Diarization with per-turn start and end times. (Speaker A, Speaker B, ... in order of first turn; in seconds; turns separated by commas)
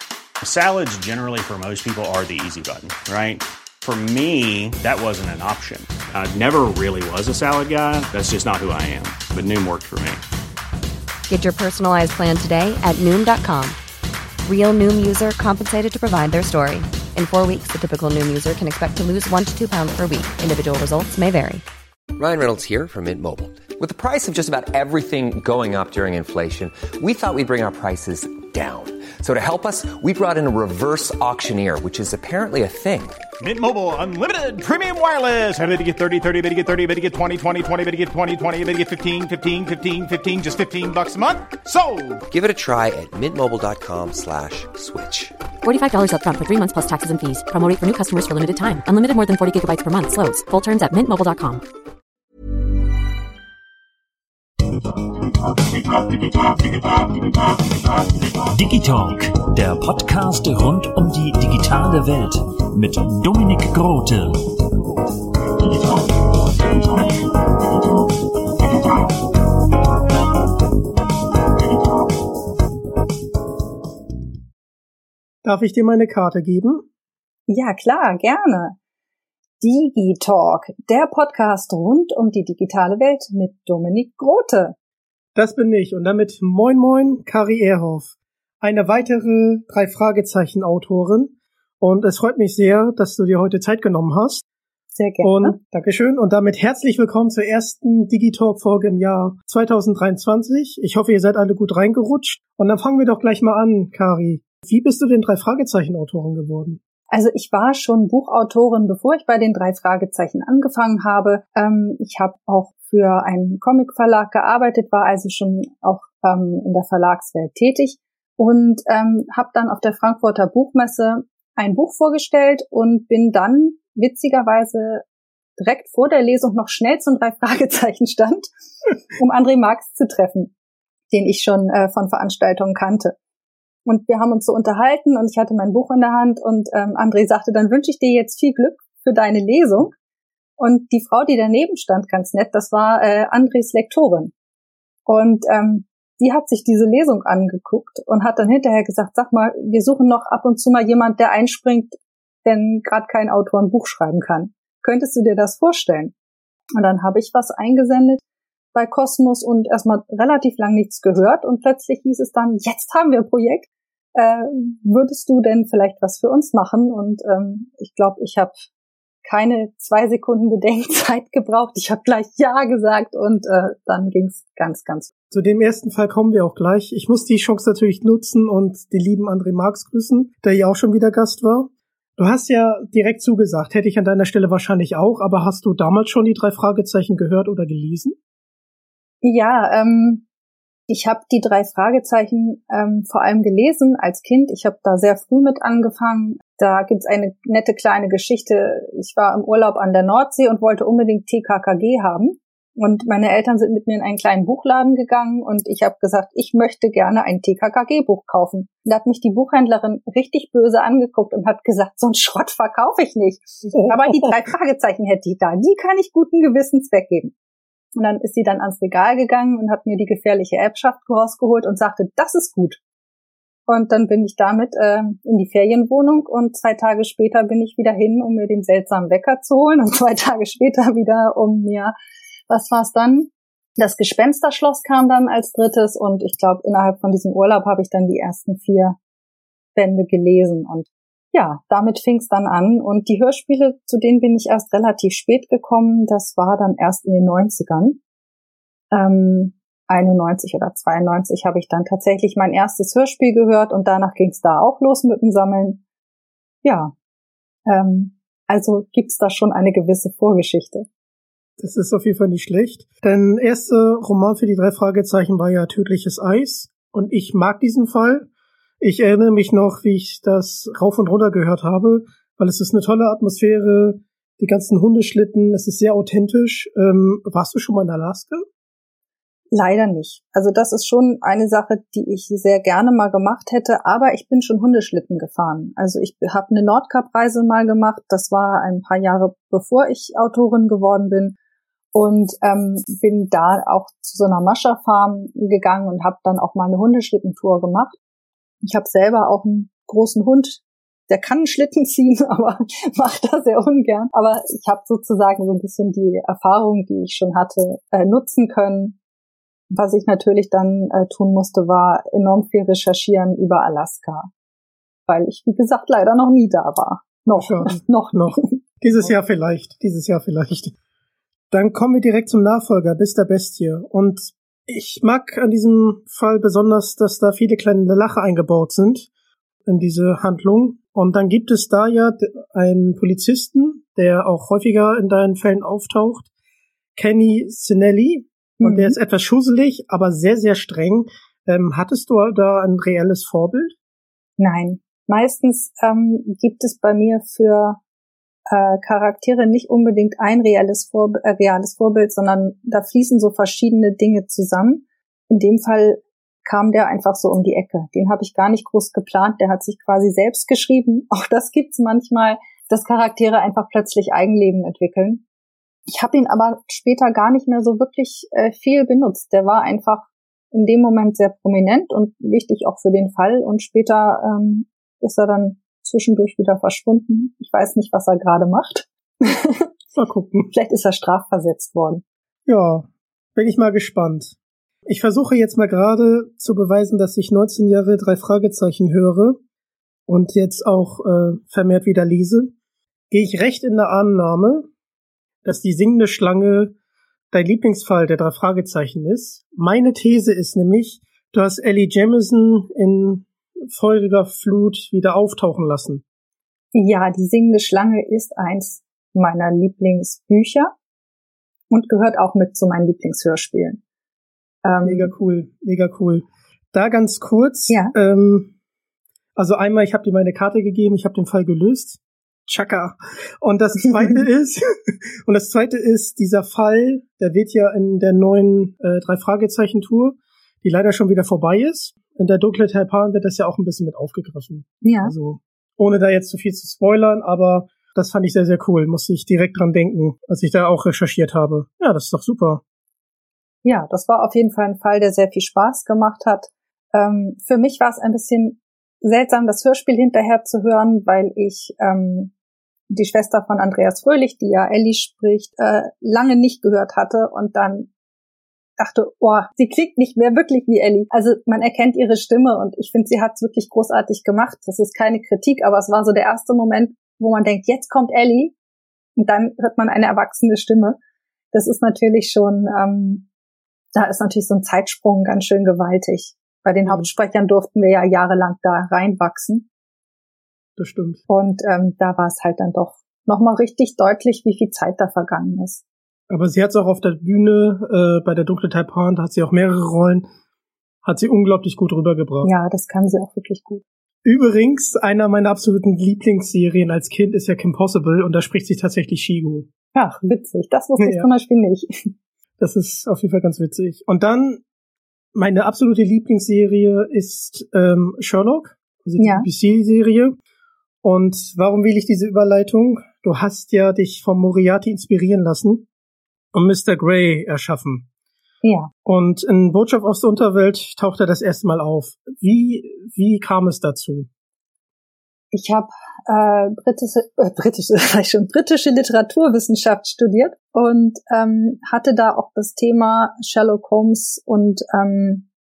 Speaker A: 0.4-10.2, Speaker B: 11.3-13.8, Speaker B: 14.4-21.6, Speaker C: 22.1-33.2, Speaker D: 33.4-42.2, Speaker C: 42.3-45.3, Speaker E: 45.6-51.6, Speaker F: 56.2-57.3, Speaker F: 58.2-64.4, Speaker F: 65.6-66.0, Speaker F: 66.7-67.2, Speaker G: 75.4-76.8, Speaker H: 77.5-78.8, Speaker H: 79.6-84.7, Speaker G: 85.3-94.4, Speaker H: 95.0-95.5, Speaker G: 95.2-106.8, Speaker H: 107.1-125.0, Speaker H: 125.6-128.5, Speaker H: 129.1-130.5, Speaker H: 131.1-133.2, Speaker H: 133.8-139.9, Speaker H: 140.6-144.3, Speaker H: 145.1-156.1, Speaker H: 156.8-158.2, Speaker H: 158.7-168.5, Speaker H: 169.2-175.1, Speaker G: 175.3-188.2, Speaker H: 189.2-190.2, Speaker H: 190.9-217.3, Speaker G: 213.7-214.3, Speaker H: 217.9-222.8, Speaker H: 223.7-231.9, Speaker H: 232.5-239.0, Speaker H: 239.8-248.0, Speaker H: 248.9-255.8, Speaker H: 256.6-256.9, Speaker H: 257.7-260.9, Speaker G: 261.6-268.3, Speaker G: 268.8-278.4, Speaker H: 279.5-291.3, Speaker H: 291.9-298.0, Speaker H: 298.6-309.0, Speaker H: 309.7-314.3, Speaker H: 315.1-318.6, Speaker G: 317.4-320.7, Speaker G: 321.5-329.1, Speaker G: 329.6-336.3, Speaker G: 336.9-343.7, Speaker H: 338.6-339.0, Speaker H: 344.4-347.8, Speaker H: 348.5-365.2, Speaker H: 365.9-379.7, Speaker G: 379.9-380.5, Speaker H: 380.5-382.0, Speaker G: 382.5-389.4, Speaker G: 390.1-392.5, Speaker G: 393.1-394.7, Speaker G: 395.4-396.7, Speaker G: 397.3-406.0, Speaker H: 406.7-410.7, Speaker H: 411.7-413.8, Speaker H: 414.6-415.1, Speaker G: 414.8-418.5, Speaker H: 417.7-417.9, Speaker G: 419.4-442.6, Speaker H: 434.8-435.1, Speaker H: 443.6-452.3, Speaker H: 452.9-457.9, Speaker H: 458.8-468.5, Speaker H: 469.2-471.0, Speaker H: 471.5-473.3, Speaker H: 473.9-479.6, Speaker G: 480.8-481.2, Speaker H: 481.3-485.8, Speaker G: 486.3-490.2, Speaker G: 491.0-492.5, Speaker H: 492.4-493.8, Speaker G: 494.2-499.7, Speaker H: 499.9-502.1, Speaker G: 501.0-501.3, Speaker G: 502.6-504.6, Speaker G: 505.3-510.4, Speaker H: 509.2-509.5, Speaker G: 511.0-515.9, Speaker G: 516.5-518.1, Speaker H: 518.6-518.9, Speaker G: 519.0-524.3, Speaker H: 525.5-535.5